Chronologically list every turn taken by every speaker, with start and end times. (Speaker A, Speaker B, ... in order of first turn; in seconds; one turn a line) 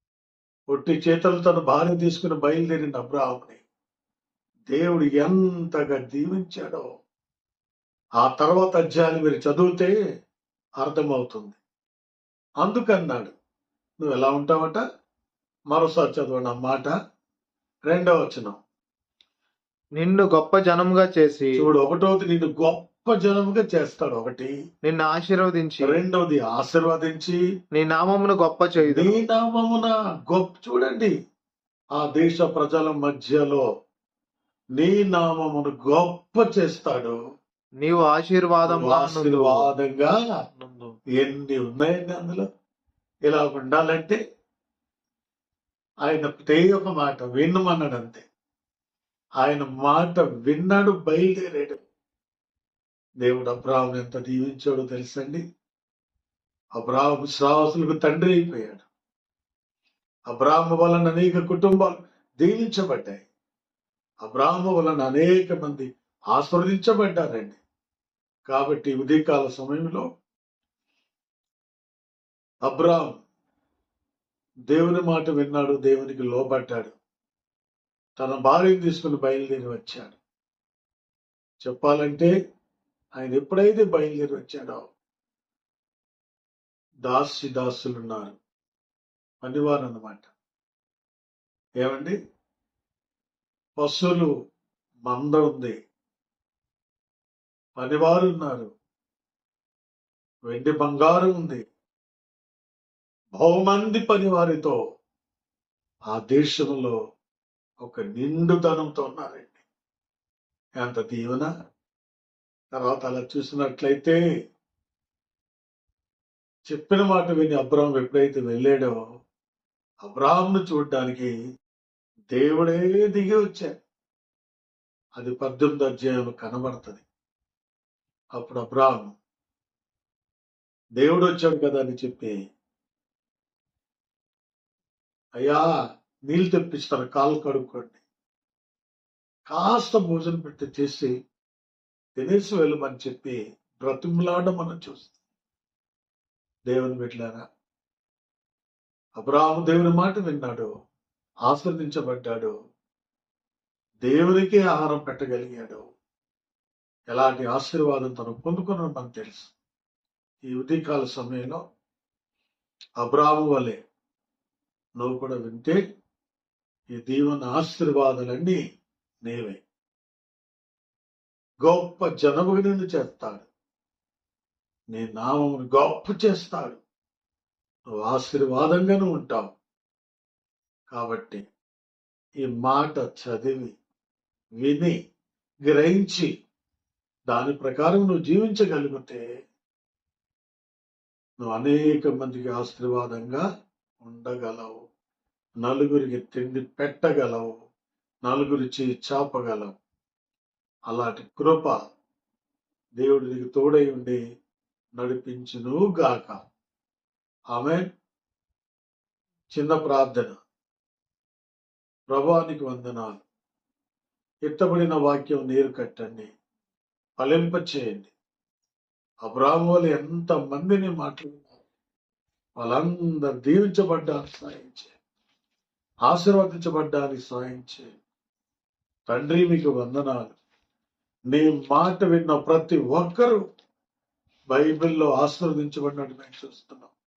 Speaker A: 0.7-3.6
Speaker A: 4.7-6.9
Speaker A: 8.2-9.9
Speaker A: 10.8-11.6
Speaker A: 12.6-13.3
Speaker A: 14.0-14.8
Speaker A: 15.7-16.9
Speaker A: 17.9-18.6
Speaker B: 20.0-21.6
Speaker A: 21.6-24.5
Speaker B: 24.8-25.9
Speaker A: 25.8-27.4
Speaker B: 27.7-29.2
Speaker A: 28.8-31.1
Speaker A: 31.9-33.6
Speaker A: 34.8-37.2
Speaker B: 37.8-39.7
Speaker A: 38.6-40.1
Speaker B: 40.6-40.9
Speaker A: 41.2-42.4
Speaker A: 43.3-44.2
Speaker A: 46.0-48.2
Speaker A: 49.4-51.8
Speaker A: 53.2-55.4
Speaker A: 56.8-58.8
Speaker A: 60.3-63.2
Speaker A: 64.2-67.6
Speaker A: 68.5-70.0
Speaker A: 72.6-73.1
Speaker A: 74.7-76.9
Speaker A: 78.2-80.2
Speaker A: 81.6-82.3
Speaker A: 83.2-84.8
Speaker A: 87.0-88.3
Speaker A: 89.4-90.3
Speaker A: 91.8-92.2
Speaker A: 93.8-94.3
Speaker A: 95.0-95.7
Speaker A: 97.8-98.7
Speaker A: 100.5-101.6
Speaker A: 103.4-104.8
Speaker A: 106.1-107.0
Speaker A: 107.8-109.6
Speaker A: 110.8-111.5
Speaker A: 112.7-114.2
Speaker A: 116.7-119.0
Speaker A: 120.0-121.3
Speaker A: 122.3-123.8
Speaker A: 125.2-127.0
Speaker A: 128.3-129.1
Speaker A: 131.0-132.4
Speaker A: 135.4-135.6
Speaker A: 136.3-138.0
Speaker A: 139.5-141.1
Speaker A: 142.2-145.1
Speaker A: 146.7-147.4
Speaker A: 149.2-150.7
Speaker A: 151.5-152.5
Speaker A: 154.0-155.8
Speaker A: 157.1-159.5
Speaker A: 160.4-161.6
Speaker A: 163.0-163.8
Speaker A: 165.0-165.8
Speaker A: 166.9-168.6
Speaker A: 169.2-169.6
Speaker A: 171.6-173.5
Speaker A: 174.9-176.8
Speaker A: 178.0-179.5
Speaker A: 180.9-181.4
Speaker A: 182.4-183.7
Speaker A: 184.6-184.9
Speaker A: 185.7-186.3
Speaker A: 187.3-189.2
Speaker A: 191.4-193.4
Speaker A: 194.0-194.8
Speaker A: 195.6-197.5
Speaker A: 198.2-199.7
Speaker A: 200.9-201.8
Speaker A: 203.0-204.2
Speaker A: 205.0-206.4
Speaker A: 207.5-207.9
Speaker A: 209.5-210.4
Speaker A: 212.1-213.2
Speaker A: 214.4-216.3
Speaker A: 217.2-218.1
Speaker A: 219.2-221.6
Speaker A: 222.6-224.9
Speaker A: 226.1-228.0
Speaker A: 229.1-230.3
Speaker A: 231.3-233.4
Speaker A: 234.5-236.9